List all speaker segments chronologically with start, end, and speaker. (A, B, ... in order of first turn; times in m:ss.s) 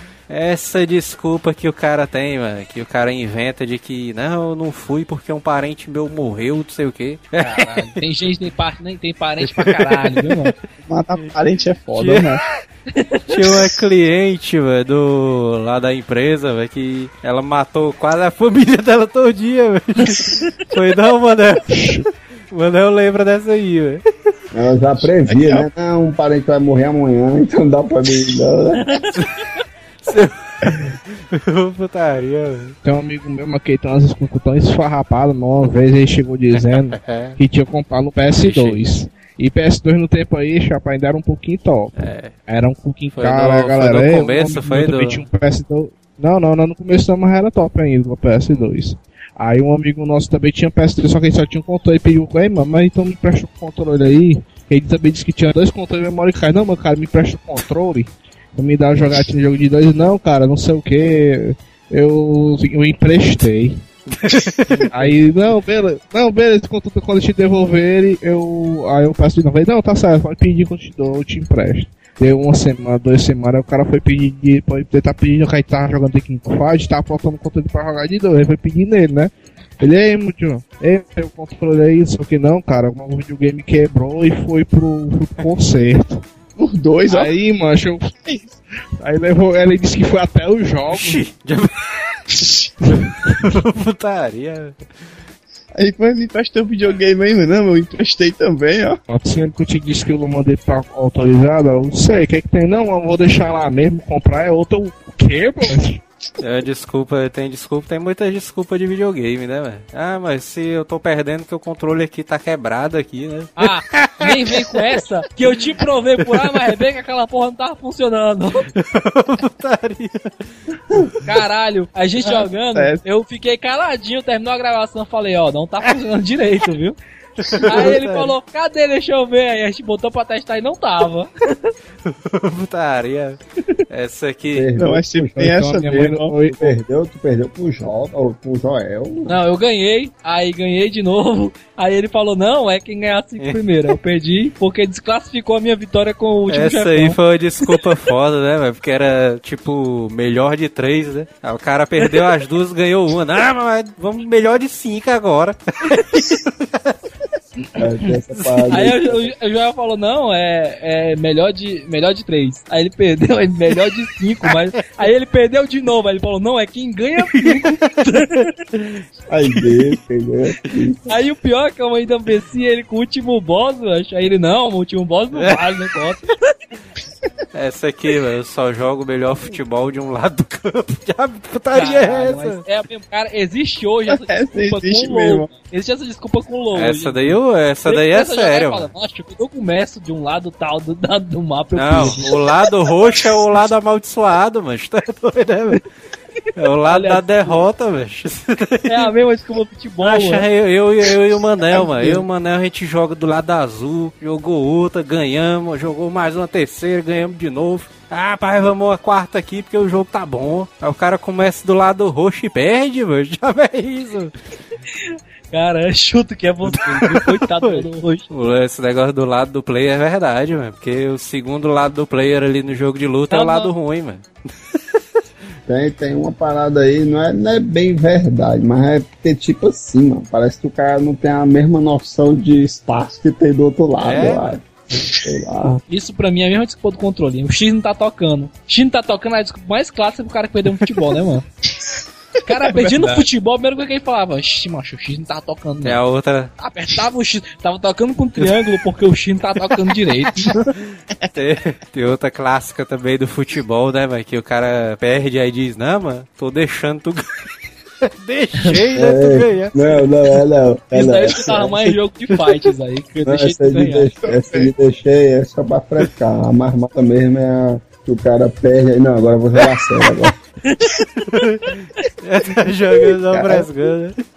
0:00.3-0:08.0 A
0:07.4-0:10.5 B
0:09.4-0:10.4 A
0:10.8-0:12.4 C
0:11.9-0:12.4 A
0:13.0-0:13.3 B
0:13.3-0:21.9 A
0:21.7-0:22.0 D
0:22.5-0:24.0 A
0:24.5-0:28.8 E
0:25.3-0:25.7 C
0:28.9-0:29.2 B
0:30.0-0:32.8 A
0:32.8-0:41.9 D
0:36.5-0:37.4 A
0:38.3-0:38.8 A
0:42.0-0:42.4 A
0:42.5-1:03.8 D
0:43.1-0:45.2 A
1:04.2-1:04.8 A
1:04.9-1:26.2 D
1:26.6-1:27.3 C
1:27.1-1:31.2 D
1:30.9-1:32.2 A
1:32.8-1:34.8 A
1:35.8-1:39.0 C
1:39.1-1:46.0 D
1:46.4-1:54.8 A
1:53.6-1:58.7 B
1:56.2-1:56.6 A
1:58.8-2:00.4 A
2:01.2-2:07.0 B
2:02.2-2:03.0 C
2:07.4-2:08.3 A
2:07.7-2:11.7 B
2:12.1-2:13.4 A
2:13.9-2:14.7 A
2:14.5-2:15.6 E
2:14.8-2:16.4 C
2:15.4-2:16.7 D
2:16.5-2:19.4 E
2:19.3-2:27.2 B
2:23.4-2:23.9 A
2:26.5-2:37.0 A
2:37.8-2:39.3 E
2:38.4-2:38.6 A
2:38.7-2:48.5 B
2:49.3-2:51.1 E
2:51.1-2:56.3 B
2:55.4-2:55.6 A
2:57.5-3:02.6 A
3:01.7-3:12.3 B
3:04.1-3:05.5 C
3:06.7-3:08.9 A
3:11.8-3:15.8 A
3:16.6-3:19.1 A
3:16.9-3:17.6 B
3:18.9-3:20.4 B
3:20.0-3:34.3 A
3:34.9-3:38.3 B
3:36.7-3:44.8 A
3:43.3-3:43.7 B
3:45.7-3:55.8 E
3:54.0-3:54.6 A
3:55.9-4:01.4 B
4:02.4-4:06.0 B
4:02.6-4:03.2 C
4:05.8-4:06.5 A
4:06.6-4:10.6 B
4:11.3-4:17.5 A
4:18.0-4:19.8 A
4:19.0-4:21.9 E
4:20.9-4:24.1 B
4:22.3-4:22.7 A
4:23.2-4:30.3 E
4:24.2-4:24.7 C
4:30.6-4:31.5 B
4:31.3-4:34.2 A